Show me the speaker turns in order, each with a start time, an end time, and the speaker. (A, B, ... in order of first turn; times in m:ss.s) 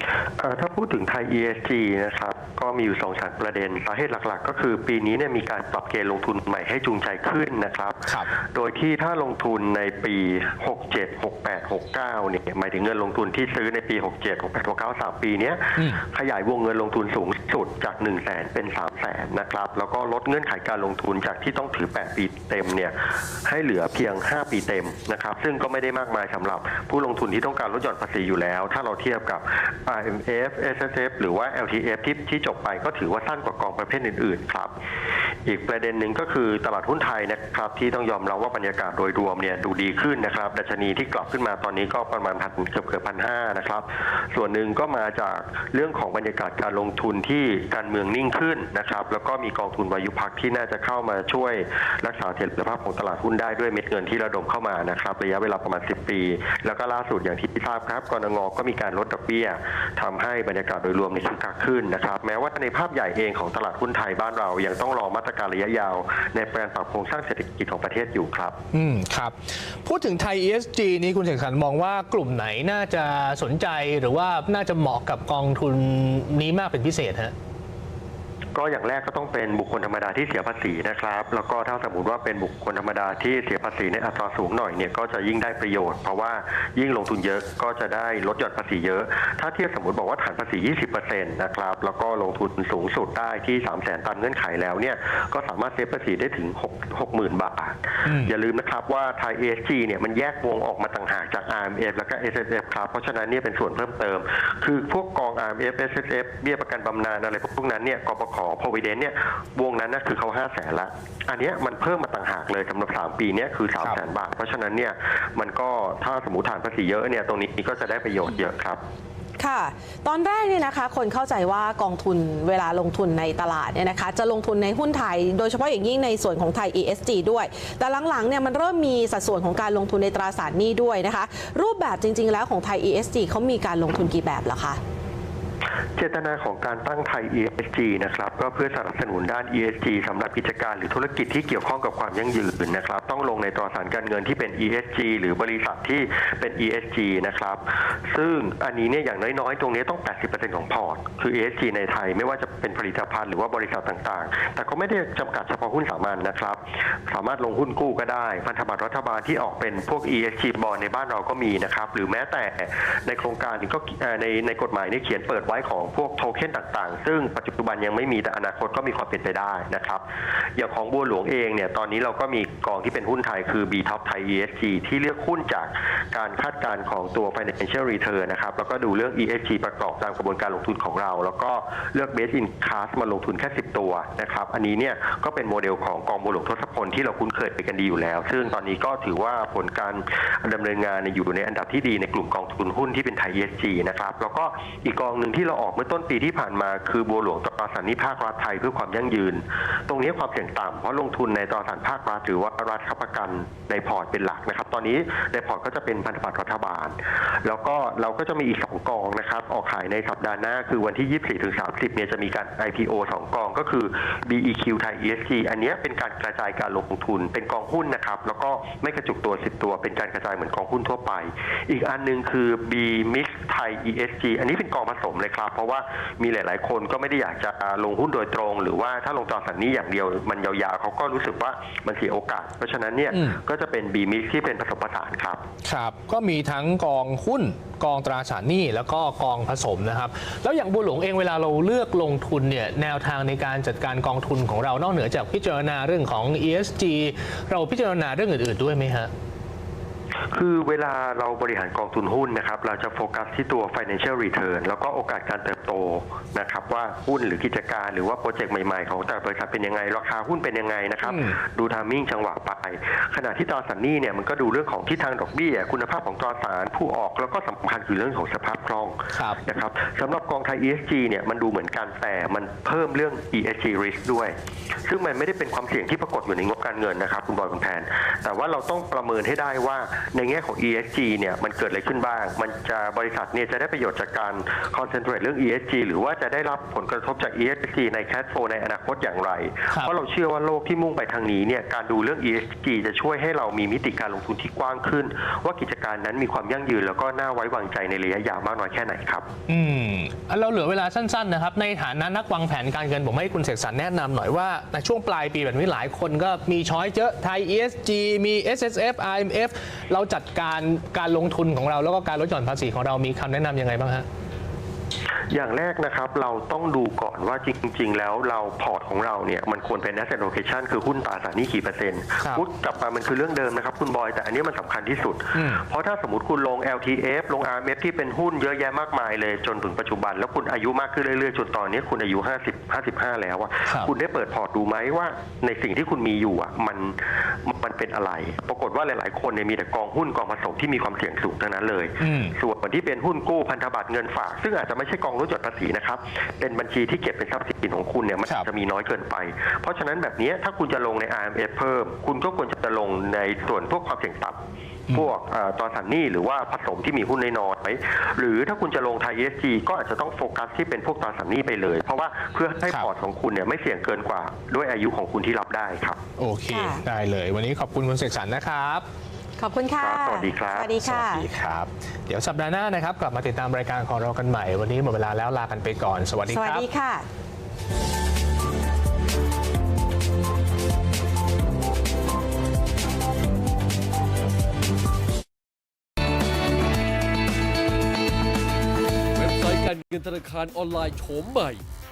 0:00.4-0:34.7 A
0:35.4-1:08.6 A
1:08.7-1:17.3 B
1:18.6-1:58.8 A
1:38.1-1:38.3 B
1:59.4-2:14.8 C
2:16.0-2:50.0 A
2:50.6-3:55.4 A
3:55.6-4:09.1 B
4:10.3-4:59.3 A
4:21.1-4:21.4 B
4:59.5-5:14.1 B
5:15.3-6:06.0 A
5:25.4-5:25.6 B
5:42.0-5:42.4 B
6:06.2-6:08.9 B
6:06.5-6:06.8 C
6:09.4-6:11.2 C
6:09.8-6:10.8 A
6:10.8-6:16.7 B
6:16.3-6:17.0 C
6:29.1-6:31.6 D